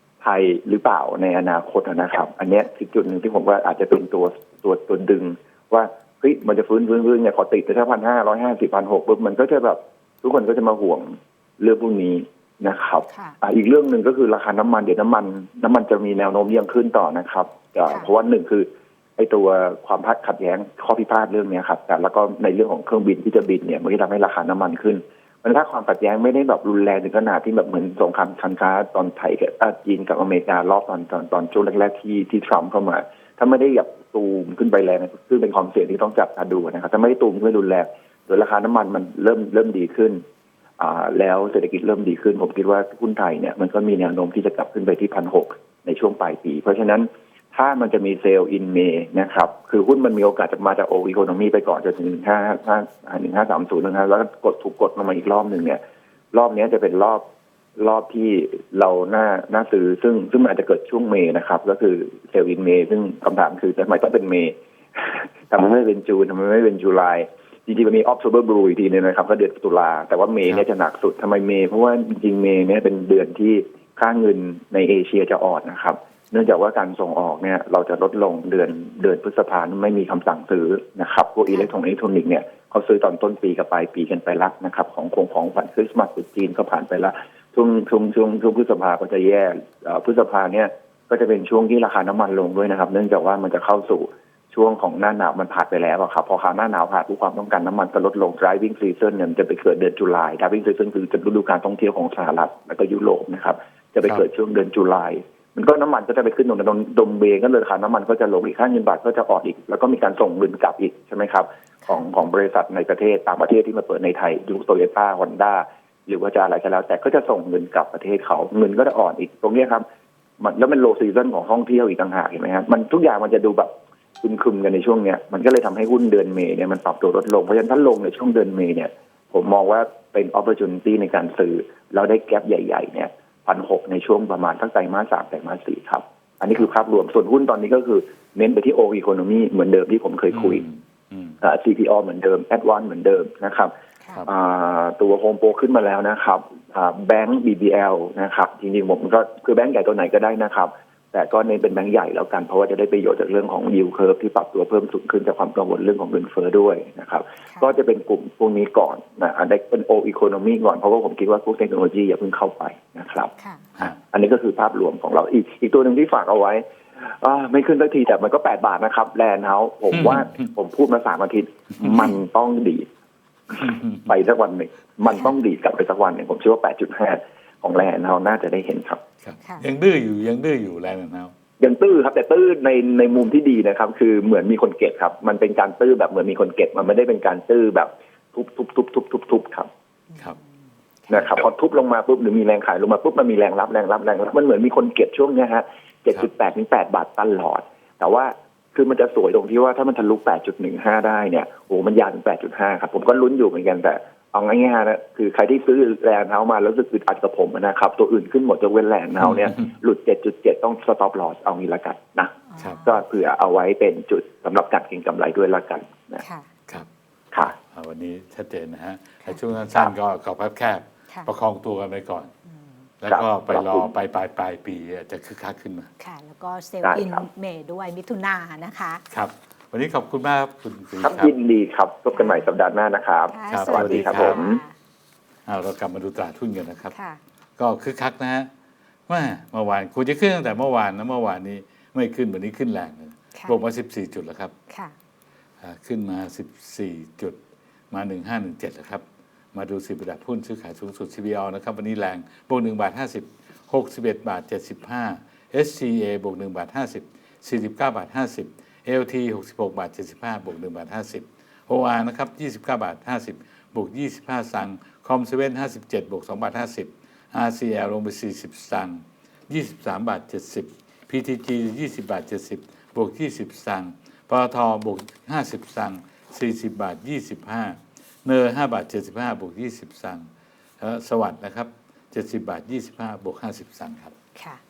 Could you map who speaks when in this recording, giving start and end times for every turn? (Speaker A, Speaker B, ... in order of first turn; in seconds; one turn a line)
Speaker A: 0.2-40.2
Speaker B: 13.1-13.4
Speaker B: 17.9-18.1
Speaker A: 40.8-55.8
Speaker A: 56.3-57.2
Speaker A: 57.8-119.8
Speaker A: 120.4-140.6
Speaker C: 140.3-141.4
Speaker A: 141.4-143.7
Speaker A: 144.2-166.6
Speaker B: 163.4-163.7
Speaker A: 167.2-172.9
Speaker C: 169.9-170.4
Speaker C: 171.8-172.1
Speaker C: 173.5-173.9
Speaker A: 173.5-179.0
Speaker C: 179.2-181.3
Speaker B: 179.4-179.7
Speaker A: 181.6-189.7
Speaker B: 190.1-190.4
Speaker A: 191.1-216.2
Speaker C: 191.1-191.4
Speaker B: 212.5-212.9
Speaker B: 216.2-216.5
Speaker C: 217.4-222.3
Speaker B: 222.5-222.8
Speaker C: 223.0-225.9
Speaker A: 223.1-223.9
Speaker B: 226.0-229.0
Speaker A: 226.8-227.2
Speaker C: 229.1-231.3
Speaker A: 231.0-234.6
Speaker B: 232.1-232.5
Speaker B: 233.3-234.7
Speaker C: 233.5-234.5
Speaker C: 235.4-236.9
Speaker B: 236.9-237.2
Speaker C: 237.6-238.5
Speaker C: 239.1-244.5
Speaker B: 244.7-244.9
Speaker C: 245.6-247.4
Speaker C: 247.9-280.3
Speaker C: 280.8-284.1
Speaker B: 284.4-284.6